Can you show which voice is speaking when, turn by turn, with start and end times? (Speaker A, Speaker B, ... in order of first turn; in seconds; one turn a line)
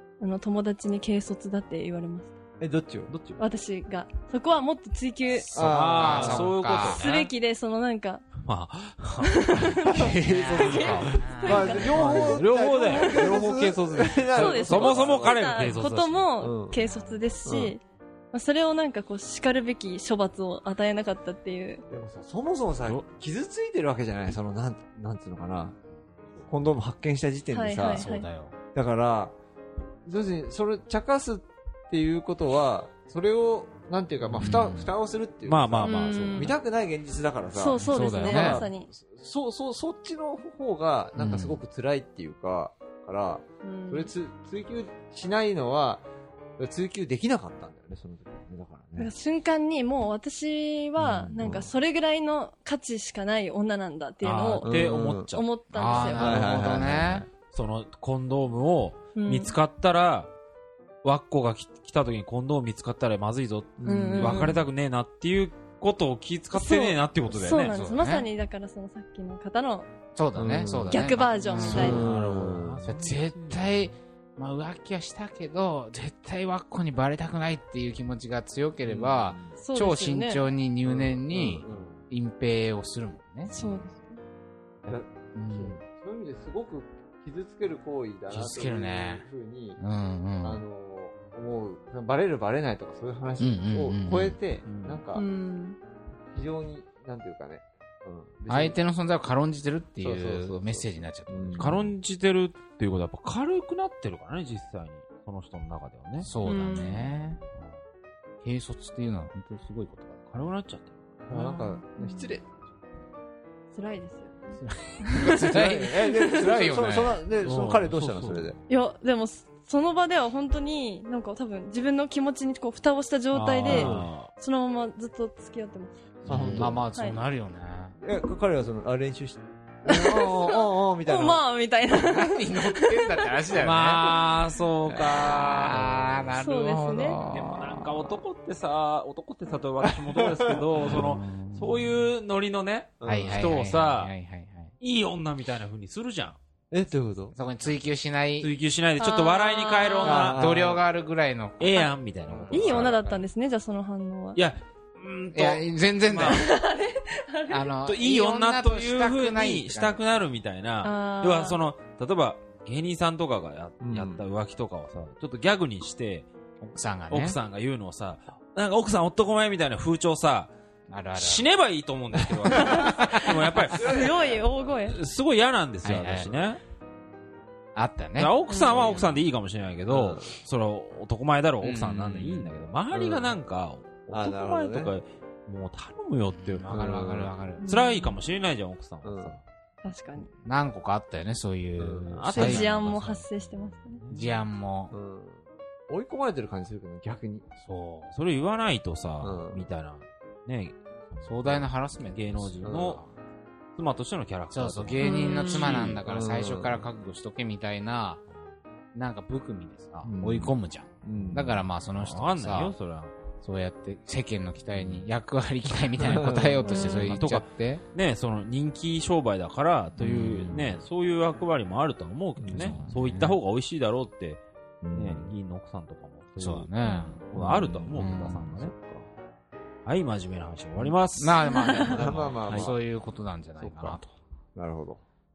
Speaker A: 0.2-2.3
Speaker B: 2.6-3.1
Speaker C: 3.1-3.4
Speaker A: 3.4-5.5
Speaker D: 5.3-7.0
Speaker B: 5.5-6.5
Speaker C: 5.5-7.3
Speaker A: 6.8-8.3
Speaker C: 8.4-16.3
Speaker A: 9.2-13.4
Speaker B: 9.9-10.4
Speaker D: 10.0-12.1
Speaker B: 11.3-15.8
Speaker A: 14.3-21.8
Speaker B: 16.4-16.8
Speaker D: 16.8-17.2
Speaker B: 17.4-17.7
Speaker B: 21.9-25.8
Speaker B: 26.5-28.1
Speaker A: 27.5-28.3
Speaker D: 27.9-28.5
Speaker B: 28.7-29.3
Speaker B: 30.1-46.0
Speaker C: 34.3-34.6
Speaker D: 34.4-34.9
Speaker C: 35.4-36.6
Speaker A: 35.8-36.5
Speaker A: 37.5-38.9
Speaker D: 37.8-38.6
Speaker D: 41.1-41.6
Speaker A: 43.6-44.1
Speaker B: 46.6-49.1
Speaker A: 49.0-54.7
Speaker B: 51.1-51.7
Speaker C: 54.2-55.4
Speaker B: 54.6-55.3
Speaker A: 55.3-56.3
Speaker D: 55.7-57.3
Speaker B: 56.1-57.3
Speaker C: 56.3-56.9
Speaker C: 57.5-60.3
Speaker A: 59.1-59.5
Speaker C: 61.0-67.7
Speaker B: 63.8-64.6
Speaker A: 63.8-64.5
Speaker A: 66.5-69.9
Speaker D: 67.5-68.3
Speaker D: 70.1-83.5
Speaker B: 70.3-71.0
Speaker A: 70.9-72.0
Speaker C: 71.5-73.5
Speaker B: 71.6-72.9
Speaker B: 78.8-79.5
Speaker A: 79.6-80.4
Speaker B: 80.8-82.0
Speaker A: 83.5-84.2
Speaker B: 84.8-89.8
Speaker D: 84.9-85.8
Speaker D: 88.3-89.2
Speaker D: 89.8-90.6
Speaker B: 90.4-95.2
Speaker D: 93.4-94.4
Speaker C: 94.7-94.9
Speaker A: 95.1-95.8
Speaker B: 96.3-98.8
Speaker D: 98.5-101.8
Speaker B: 100.0-101.9
Speaker C: 101.6-106.3
Speaker D: 106.2-107.4
Speaker A: 106.4-107.1
Speaker D: 108.4-110.5
Speaker C: 110.3-111.0
Speaker B: 111.3-112.4
Speaker A: 111.3-112.4
Speaker A: 113.7-115.5
Speaker D: 114.5-117.2
Speaker B: 115.4-118.6
Speaker C: 115.5-115.9
Speaker A: 116.1-116.4
Speaker C: 117.4-118.5
Speaker A: 118.7-126.0
Speaker C: 123.3-124.3
Speaker B: 123.6-124.1
Speaker B: 126.2-126.8
Speaker C: 126.2-126.8
Speaker D: 126.3-128.0
Speaker B: 128.0-131.4
Speaker A: 129.8-133.3
Speaker D: 131.9-134.3
Speaker C: 133.5-136.2
Speaker D: 134.9-138.2
Speaker B: 134.9-136.0
Speaker A: 136.4-137.2
Speaker C: 137.2-144.1
Speaker B: 139.8-140.9
Speaker D: 140.9-142.0
Speaker B: 143.0-143.4
Speaker D: 143.0-144.7
Speaker C: 144.8-146.4
Speaker B: 146.7-147.3
Speaker D: 147.3-148.5
Speaker C: 148.4-150.4
Speaker A: 149.0-150.3
Speaker B: 150.0-150.8
Speaker D: 150.2-151.9
Speaker C: 151.6-153.0
Speaker B: 152.3-152.7
Speaker D: 152.5-153.2
Speaker A: 152.5-154.4
Speaker C: 154.3-156.5
Speaker D: 155.3-156.5
Speaker A: 156.2-157.7
Speaker D: 157.5-160.0
Speaker C: 157.8-166.3
Speaker A: 160.8-161.6
Speaker B: 163.8-164.2
Speaker D: 166.6-167.4
Speaker C: 167.1-170.5
Speaker D: 170.9-171.4
Speaker C: 171.1-174.2
Speaker B: 172.2-172.9
Speaker A: 172.5-175.0
Speaker D: 172.7-173.5
Speaker B: 173.6-174.4
Speaker C: 174.9-176.6
Speaker D: 175.8-176.3
Speaker D: 177.7-179.1
Speaker C: 178.2-187.0
Speaker A: 178.5-179.0
Speaker B: 179.9-180.3
Speaker D: 181.6-182.5
Speaker B: 182.9-183.3
Speaker B: 184.1-184.9
Speaker D: 186.3-187.7
Speaker B: 186.7-187.3
Speaker C: 187.6-189.4
Speaker A: 187.6-188.2
Speaker B: 189.0-189.3
Speaker A: 189.8-190.3
Speaker D: 190.4-193.0
Speaker B: 191.8-192.4
Speaker C: 192.1-194.4
Speaker A: 192.3-194.0
Speaker D: 194.1-194.9
Speaker B: 194.9-197.4
Speaker D: 197.6-198.1
Speaker C: 198.1-203.0
Speaker B: 199.2-199.7
Speaker D: 201.2-203.1
Speaker B: 202.6-203.0
Speaker C: 203.8-206.0
Speaker D: 204.5-208.2
Speaker A: 205.0-205.6
Speaker B: 205.8-206.8
Speaker D: 208.9-212.7
Speaker B: 210.0-211.6
Speaker C: 211.9-213.1
Speaker D: 213.4-217.8
Speaker B: 216.0-216.9
Speaker A: 216.7-217.1
Speaker C: 216.9-224.4
Speaker D: 220.0-220.8
Speaker B: 222.4-222.9
Speaker D: 222.5-223.4
Speaker B: 224.8-225.3
Speaker C: 224.9-228.7
Speaker D: 226.4-227.2
Speaker B: 227.3-229.1
Speaker D: 227.9-228.5
Speaker C: 229.8-232.7
Speaker D: 231.2-234.1
Speaker A: 231.4-231.9
Speaker B: 231.9-232.7
Speaker B: 233.6-234.0
Speaker B: 234.5-235.0